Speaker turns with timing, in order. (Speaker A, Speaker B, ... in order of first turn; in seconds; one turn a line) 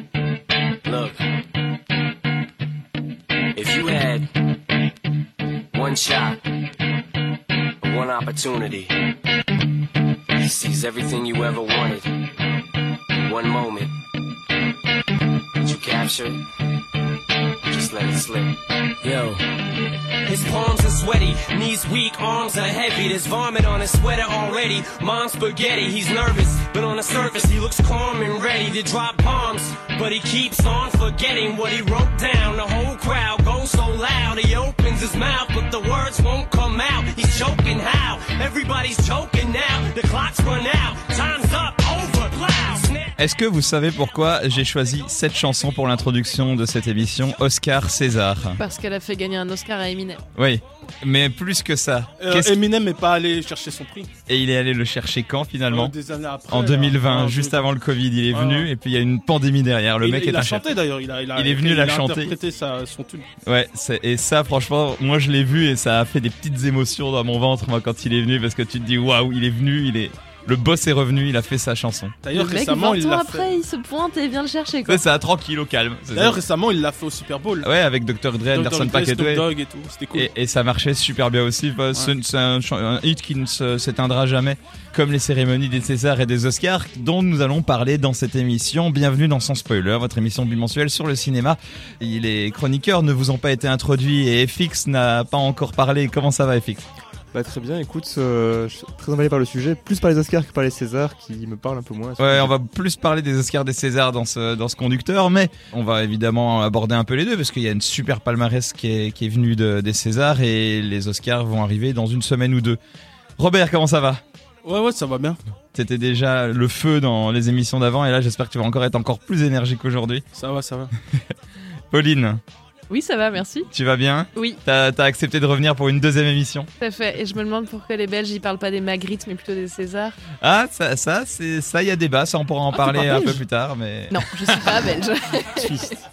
Speaker A: 0.9-1.2
Speaker A: 3.5-4.3
Speaker A: 5.7-6.4
Speaker A: 7.8-8.9
Speaker A: 10.3-12.1
Speaker A: 13.2-13.9
Speaker A: 15.6-16.4
Speaker A: 17.6-19.4
Speaker A: 20.2-43.1
Speaker B: 43.4-48.6
Speaker C: 48.6-50.2
Speaker B: 50.4-52.5
Speaker D: 52.2-54.1
Speaker B: 54.3-55.9
Speaker D: 55.7-58.7
Speaker B: 56.5-60.6
Speaker D: 60.0-63.3
Speaker B: 61.4-62.4
Speaker B: 63.5-72.2
Speaker D: 72.2-73.6
Speaker C: 72.3-75.0
Speaker B: 74.9-76.4
Speaker D: 76.1-77.7
Speaker B: 77.6-79.5
Speaker D: 78.4-80.3
Speaker B: 80.1-96.8
Speaker E: 97.3-102.5
Speaker B: 102.2-112.8
Speaker B: 113.4-114.2
Speaker D: 114.7-115.4
Speaker B: 115.7-120.2
Speaker D: 120.3-120.9
Speaker B: 121.9-122.4
Speaker C: 122.9-123.7
Speaker B: 123.7-126.7
Speaker C: 126.8-130.1
Speaker B: 130.4-134.8
Speaker D: 132.8-133.4
Speaker C: 134.1-135.9
Speaker D: 135.6-135.9